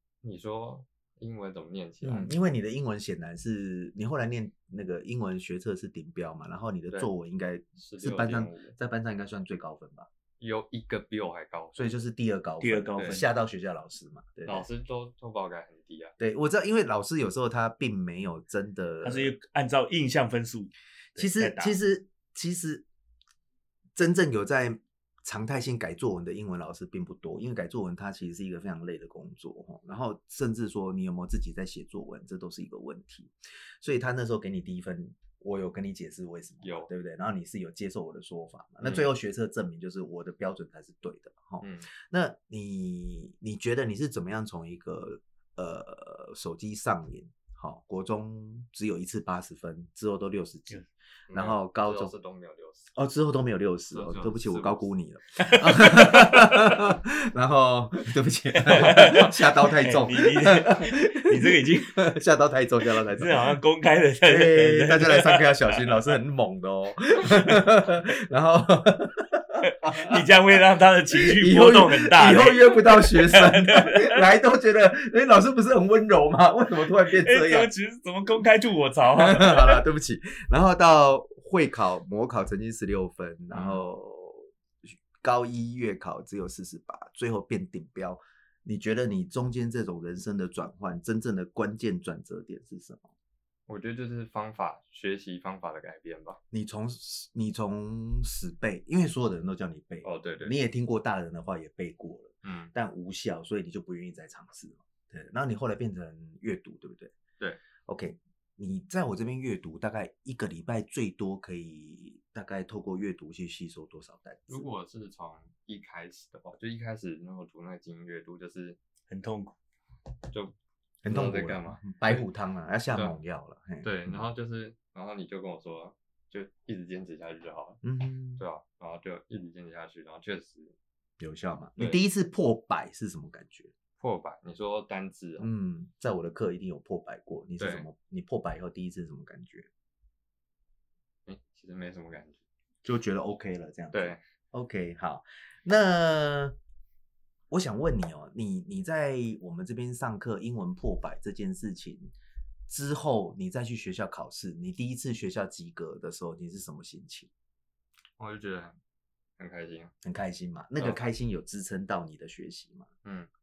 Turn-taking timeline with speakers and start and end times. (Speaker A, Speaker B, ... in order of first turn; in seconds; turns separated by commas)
Speaker A: 0.2-2.3, Speaker B: 2.0-10.1, Speaker A: 7.8-8.8, Speaker A: 10.4-11.9, Speaker B: 11.7-14.7, Speaker C: 12.6-13.3, Speaker A: 14.4-16.1, Speaker B: 16.2-19.3, Speaker C: 19.0-21.8, Speaker B: 21.2-22.9, Speaker B: 23.9-52.1, Speaker A: 36.6-36.9, Speaker A: 38.8-39.1, Speaker A: 41.6-41.9, Speaker A: 51.3-52.9, Speaker B: 52.9-63.6, Speaker A: 53.9-54.9, Speaker C: 55.4-56.8, Speaker C: 58.5-62.1, Speaker C: 63.0-65.9, Speaker B: 64.2-70.2, Speaker C: 69.6-74.2, Speaker B: 71.1-77.7, Speaker C: 77.0-79.8, Speaker B: 79.1-93.1, Speaker A: 83.5-83.8, Speaker A: 93.7-96.4, Speaker B: 96.5-107.1, Speaker A: 100.0-100.5, Speaker A: 102.4-102.7, Speaker B: 107.8-114.7, Speaker A: 114.5-118.8, Speaker C: 119.1-119.5, Speaker A: 120.3-120.5, Speaker B: 121.0-124.2, Speaker A: 121.1-122.2, Speaker A: 123.8-127.8, Speaker B: 127.8-128.4, Speaker A: 128.4-130.8, Speaker B: 131.2-133.7, Speaker A: 131.8-132.0, Speaker A: 134.0-135.5, Speaker B: 135.4-139.7, Speaker A: 137.6-137.8, Speaker A: 141.2-142.4, Speaker B: 142.8-146.6, Speaker A: 143.9-144.2, Speaker B: 147.5-152.1, Speaker B: 152.7-157.3, Speaker A: 158.2-158.8, Speaker A: 159.4-159.9, Speaker B: 160.0-162.9, Speaker A: 160.8-161.0, Speaker A: 163.0-163.3